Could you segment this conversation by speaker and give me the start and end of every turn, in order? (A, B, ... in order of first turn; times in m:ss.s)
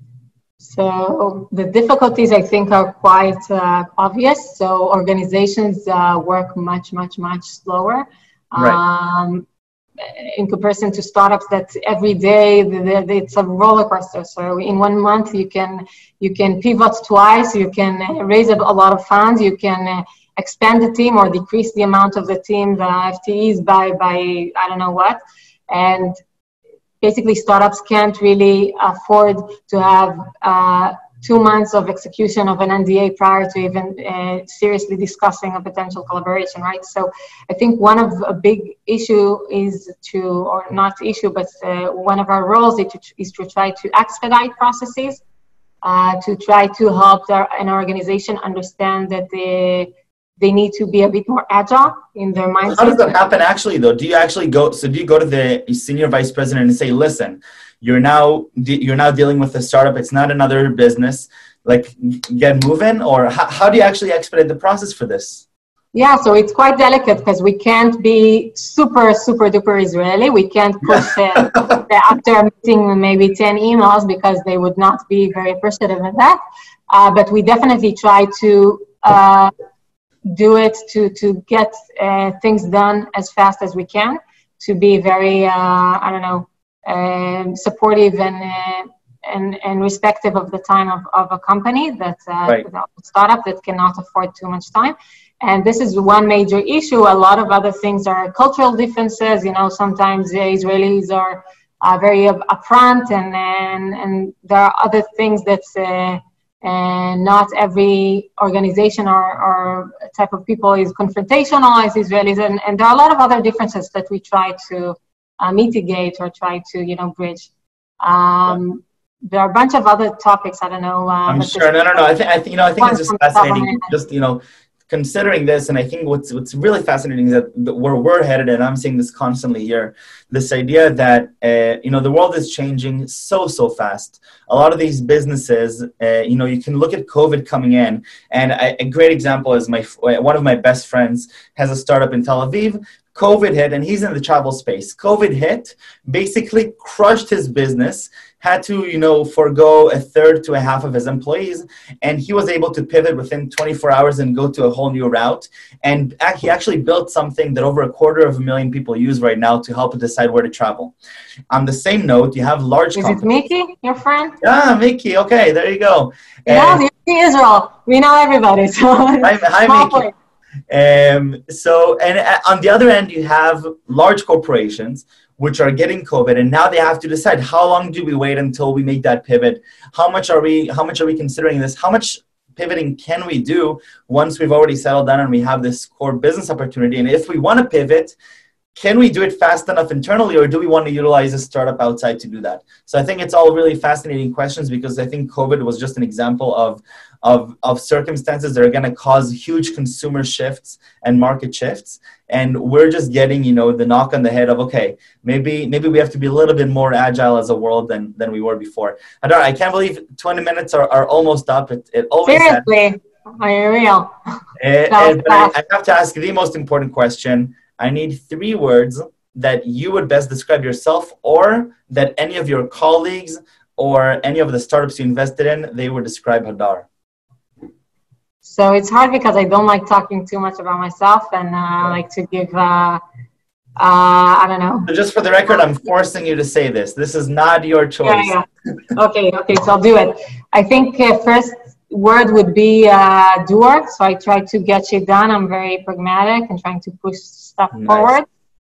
0:00.6-0:09.4 A
0:10.0-0:26.2 A
0:27.0-0:45.2 A
0:45.8-0:53.1 A
0:52.6-1:05.4 B
1:05.9-1:19.5 A
1:10.9-1:11.6 B
1:20.3-1:57.5 A
1:58.0-2:02.1 A
2:01.3-2:40.9 B
2:02.8-2:03.9 A
2:41.5-2:43.4 B
2:42.9-2:44.4 A
2:44.4-2:46.8 B
2:46.5-2:50.1 A
2:49.2-2:50.0 B
2:50.7-3:08.2 B
3:08.7-3:32.6 B
3:32.2-3:34.1 A
3:34.6-3:46.9 B
3:34.9-3:35.5 A
3:48.4-3:53.0 A
3:53.8-3:54.9 A
3:54.9-3:58.4 B
3:58.0-4:08.2 A
4:07.7-4:08.1 B